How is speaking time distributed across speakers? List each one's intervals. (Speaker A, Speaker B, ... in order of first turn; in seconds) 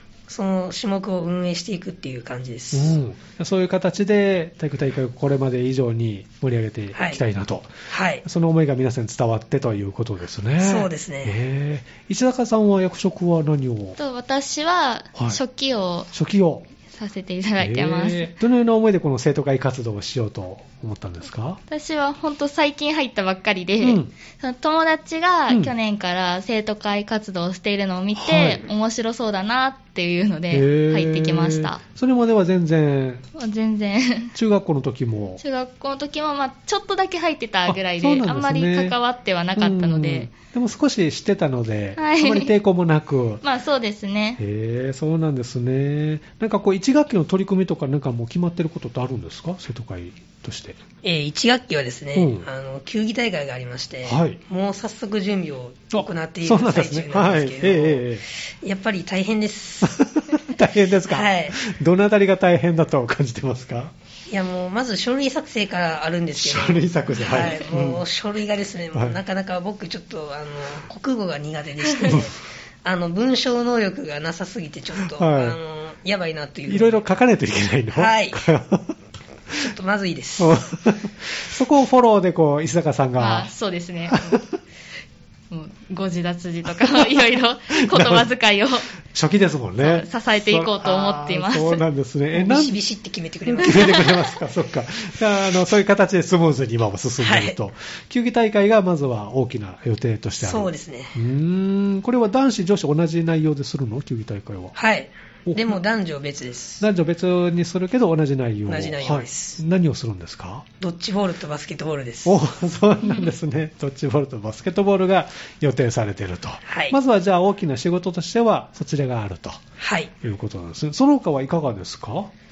Speaker A: 0.3-3.0, 6.9-7.2, 7.9-8.2, 10.6-11.3, 51.0-60.1, 61.1-61.5, 64.3-77.0, 77.9-78.4, 79.6-80.6, 92.3-94.3, 97.2-97.5, 100.4-101.1, 104.8-106.8, 108.7-109.6, 110.8-112.4, 116.7-117.0, 119.8-120.1
Speaker B: 2.7-7.7, 8.2-14.0, 15.1-15.4, 16.1-16.6, 17.6-21.6, 23.8-24.1, 25.5-25.7, 28.1-28.7, 30.5-33.2, 34.3-35.4, 37.6-39.0, 39.6-43.4, 44.4-50.8, 52.1-52.5, 54.0-54.4, 55.9-58.2, 59.8-63.9, 66.4-68.0, 72.0-72.3, 75.1-75.6, 76.7-78.9, 80.4-83.5, 84.1-84.5, 87.8-88.3, 89.0-92.8, 93.5-104.7, 105.4-105.8, 106.8-110.7, 112.2-119.6, 120.2-122.3
Speaker C: 14.0-16.1, 16.9-18.3, 21.7-31.8, 33.3-34.3, 35.4-40.3, 42.0-42.5, 43.4-44.4, 83.2-84.4, 85.5-88.9, 89.8-91.8, 113.0-113.3